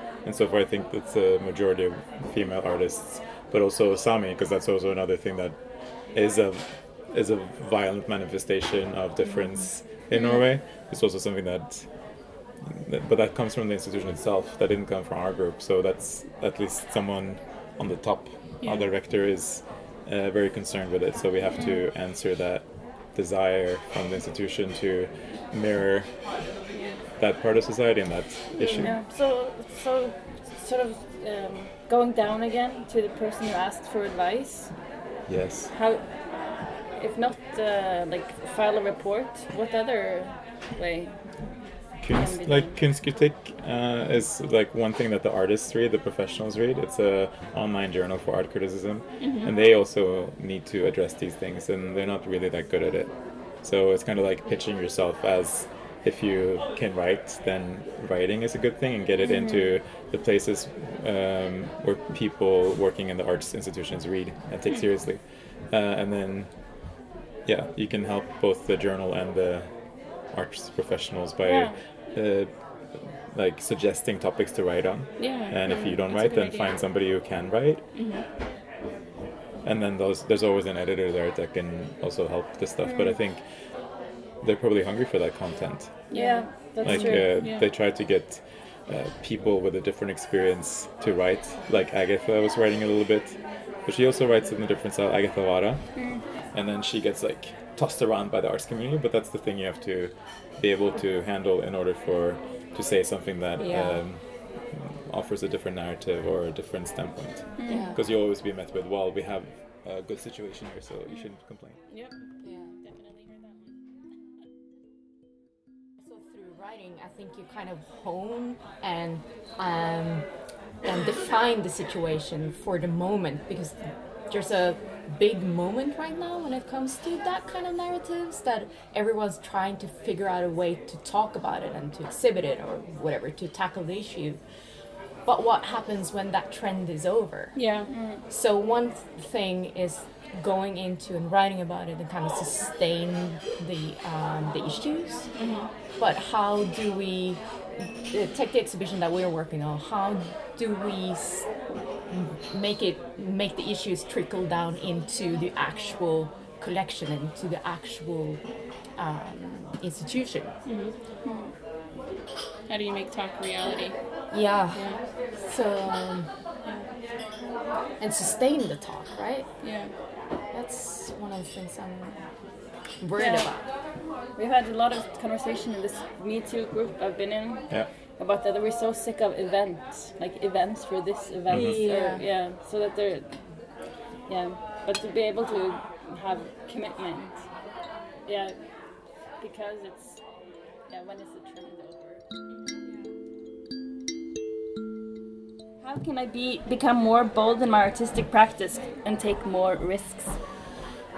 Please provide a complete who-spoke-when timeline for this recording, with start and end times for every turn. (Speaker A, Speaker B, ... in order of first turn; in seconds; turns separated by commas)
Speaker A: 0.2-5.6, Speaker A: 6.1-11.9, Speaker B: 10.1-10.4, Speaker A: 12.6-26.2, Speaker B: 21.5-21.8, Speaker A: 27.2-28.9, Speaker C: 28.6-28.9, Speaker D: 28.8-34.8, Speaker A: 35.3-35.7, Speaker D: 35.7-41.2, Speaker A: 42.0-66.9, Speaker D: 42.1-42.8, Speaker B: 49.2-49.5, Speaker D: 59.2-59.7, Speaker A: 67.4-69.7, Speaker A: 70.3-72.5, Speaker D: 71.4-71.8, Speaker A: 73.3-77.8, Speaker B: 75.2-76.8, Speaker B: 77.9-78.2, Speaker A: 79.6-83.4, Speaker D: 82.8-83.1, Speaker A: 84.4-86.1, Speaker D: 86.1-87.3, Speaker B: 86.1-87.7, Speaker A: 86.8-111.8, Speaker D: 95.9-96.2, Speaker C: 103.6-104.0, Speaker D: 107.6-107.9, Speaker C: 107.7-108.0, Speaker B: 111.9-112.2, Speaker C: 112.4-112.7, Speaker B: 112.8-113.7, Speaker C: 116.0-120.2, Speaker C: 120.8-123.8, Speaker C: 124.3-134.4, Speaker C: 135.2-137.6, Speaker B: 137.5-137.9, Speaker D: 137.9-138.2, Speaker C: 138.2-145.3, Speaker B: 145.3-145.7, Speaker C: 146.0-147.4, Speaker C: 148.1-151.5, Speaker C: 152.1-158.4, Speaker C: 159.0-160.5, Speaker B: 160.7-161.4, Speaker B: 162.7-164.0, Speaker C: 164.3-166.3, Speaker B: 164.7-165.0, Speaker B: 166.6-166.9, Speaker C: 168.0-169.5, Speaker B: 169.6-169.9, Speaker C: 170.5-172.2, Speaker C: 173.0-173.6, Speaker D: 173.2-173.5, Speaker D: 174.3-183.4, Speaker A: 181.5-181.8, Speaker C: 181.5-182.2, Speaker D: 184.2-187.4, Speaker D: 188.2-188.6, Speaker D: 189.4-190.2, Speaker D: 190.9-192.2, Speaker B: 192.5-192.8, Speaker D: 195.8-200.4